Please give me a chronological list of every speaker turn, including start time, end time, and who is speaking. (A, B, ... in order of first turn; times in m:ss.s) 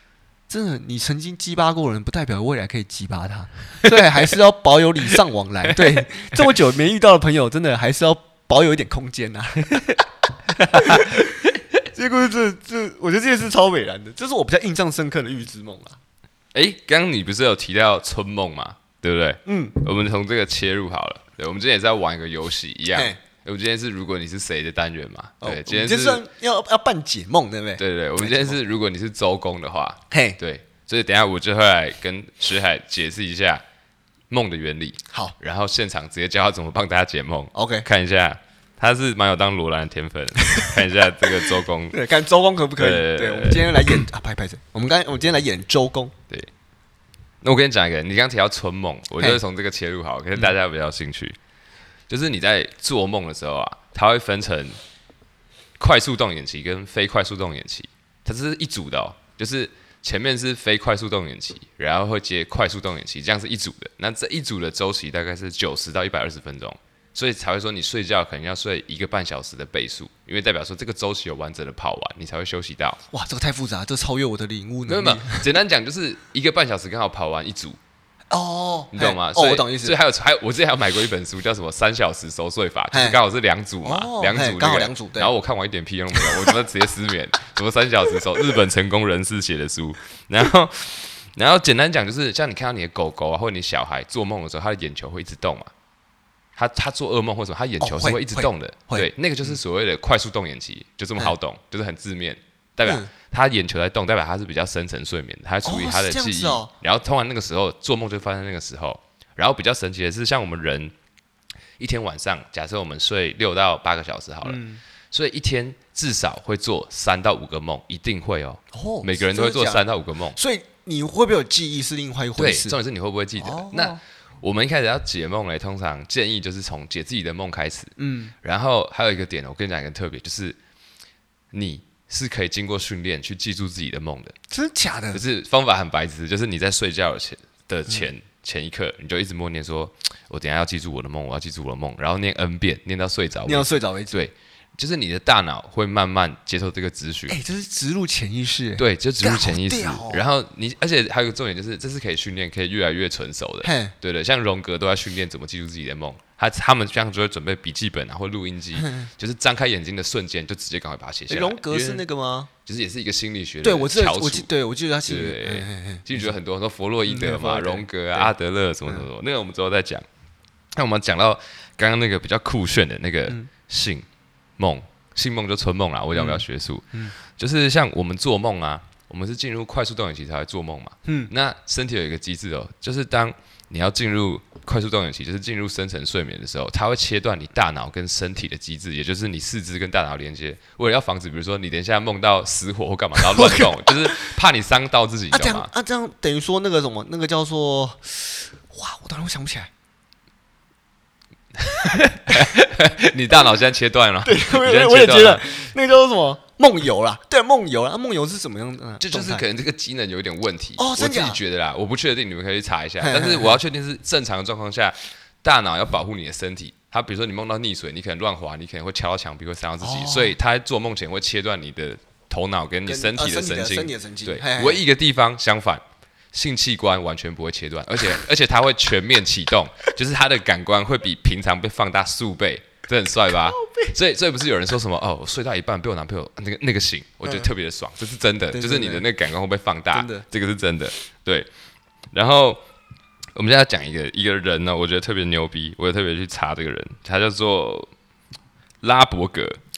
0:00.5-0:10.0 A
0:05.7-0:06.3 B
0:10.6-0:11.1 B
0:10.7-0:11.3 A
0:11.9-0:16.0 A
0:16.5-0:26.2 B
0:19.4-0:19.8 A
0:22.9-0:23.2 A
0:25.4-0:28.6 A
0:27.8-0:33.6 B
0:30.1-0:30.4 A
0:34.3-0:42.0 B
0:37.5-0:37.9 A
0:40.5-0:46.1 A
0:42.8-0:44.0 B
0:47.4-0:51.4 B
0:52.1-0:54.8 B
0:55.8-1:13.0 B
1:13.1-1:15.5 A
1:14.9-1:17.8 B
1:18.3-1:20.0 A
1:18.9-1:35.7 B
1:22.9-1:23.2 A
1:23.8-1:25.3 A
1:26.1-1:26.5 A
1:36.6-1:50.9 B
1:37.8-1:39.6 A
1:42.8-1:43.1 A
1:45.6-1:46.7 A
1:51.8-2:00.4 B
1:54.4-1:54.8 A
1:58.7-2:02.8 A
2:02.4-2:10.6 B
2:03.4-2:04.0 A
2:08.0-2:08.3 A
2:11.5-2:14.3 B
2:14.5-2:15.2 A
2:15.1-2:27.4 B
2:23.4-2:24.2 A
2:27.3-2:30.2 A
2:28.8-2:42.0 B
2:33.6-2:33.9 A
2:38.8-2:39.1 A
2:41.3-2:42.5 A
2:42.6-2:44.5 B
2:43.6-2:46.3 A
2:45.0-2:50.0 B
2:47.0-2:48.3 A
2:50.7-2:54.0 B
2:54.6-3:15.7 B
2:56.1-2:57.1 A
3:01.0-3:01.3 A
3:13.2-3:14.3 A
3:15.3-3:19.7 A
3:21.6-3:25.4 B
3:24.2-3:29.4 A
3:29.0-3:45.8 B
3:30.8-3:31.4 A
3:33.0-3:33.6 A
3:39.8-3:40.3 A
3:42.9-3:44.8 A
3:46.3-4:01.5 B
3:53.3-3:53.9 A
3:58.5-3:59.0 A
3:59.9-4:00.2 A
4:02.1-4:02.6 B
4:03.4-4:07.9 B
4:08.8-4:09.6 B